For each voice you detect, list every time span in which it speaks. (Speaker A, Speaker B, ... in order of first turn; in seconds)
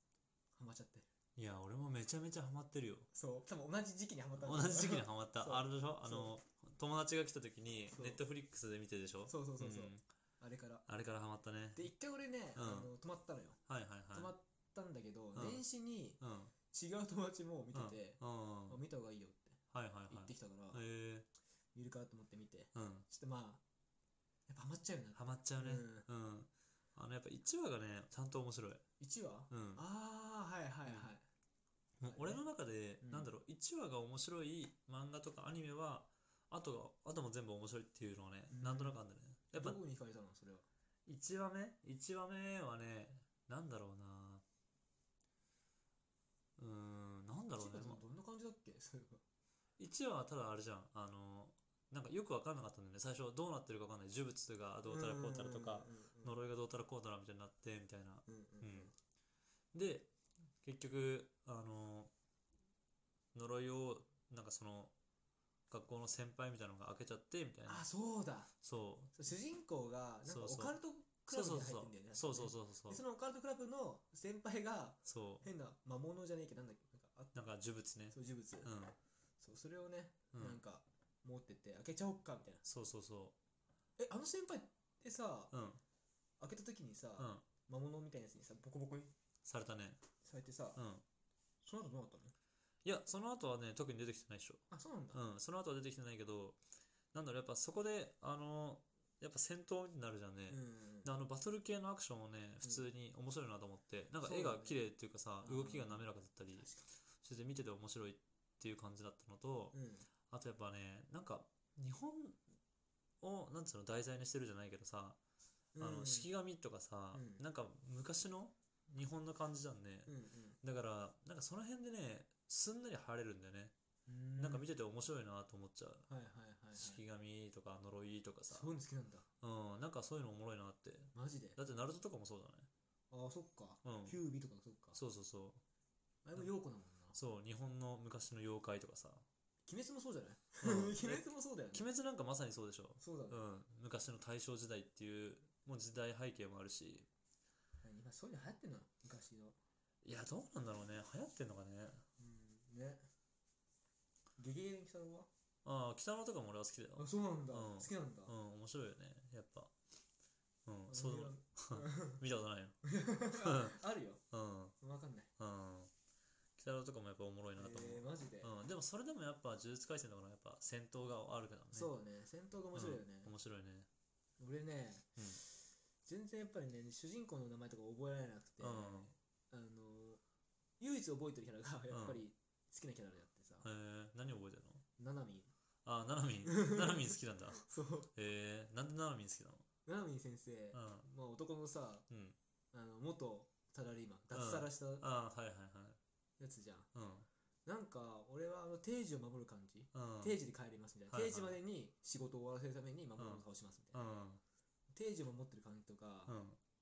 Speaker A: 0.5-1.1, 3.1-6.3, 7.9-8.2, 9.3-10.8, 11.7-13.6, 14.1-20.8, 21.7-23.6, 24.5-26.1, 29.0-31.2, 32.0-32.4, 33.0-33.3, 38.5-39.0, 39.5-40.6, 47.6-49.2, 54.9-56.4, 58.3-58.9, 67.7-68.5, 69.1-77.4, 78.1-78.7, 79.4-82.6, 84.0-85.5, 86.4-89.1, 90.2-90.8, 91.6-92.3, 94.7-95.2, 100.5-101.1, 104.2-104.8, 105.4-106.9, 109.7-110.1, 115.7-116.3, 117.1-117.4, 120.0-120.6, 124.1-124.7, 126.1-127.0, 128.5-129.2, 131.1-131.6, 133.1-135.0, 136.2-137.2, 139.7-141.9, 143.0-143.4, 147.8-149.6, 152.2-153.0, 154.4-155.3, 157.0-158.3, 160.9-162.2, 162.8-164.2, 164.8-165.3, 167.6-168.5, 171.7-173.3, 174.4-180.2, 180.8-183.7, 185.0-185.5, 186.4-188.1, 189.8-192.1, 192.7-195.0, 196.4-196.9, 197.7-204.0, 204.9-206.3
Speaker B: 1.4-3.1, 4.4-10.0, 10.9-11.9, 12.5-12.9, 13.7-14.3, 15.3-15.6, 16.2-16.5, 17.7-18.8, 19.7-21.3, 22.7-23.1, 25.1-28.8, 29.5-29.8, 30.9-31.1, 32.0-39.8, 41.0-44.4, 46.6-48.0, 49.8-58.9, 59.7-60.1, 60.6-62.1, 63.3-64.9, 65.7-67.8, 68.6-69.3, 70.2-73.0, 75.0-75.5, 77.3-78.9, 80.3-80.6, 82.6-83.3, 85.5-85.8, 87.2-87.4, 89.4-90.0, 90.8-91.0, 92.8-96.6, 97.1-109.7, 110.3-112.4, 113.2-115.2, 115.8-123.7, 124.4-126.1, 126.7-128.7, 129.4-132.7, 133.8-134.2, 134.9-135.6, 137.1-139.2, 140.6-147.1, 150.0-152.0, 155.6-159.7, 160.6-162.8, 163.3-163.8, 164.3-164.7, 165.4-165.9, 166.6-171.9, 172.7-173.9, 178.6-179.1, 181.9-182.2, 183.6-184.8, 185.8-189.6, 190.7-191.1, 192.1-192.4, 194.3-196.0, 196.9-197.3, 199.9-200.4, 201.1-201.6, 203.2-204.4, 206.3-206.6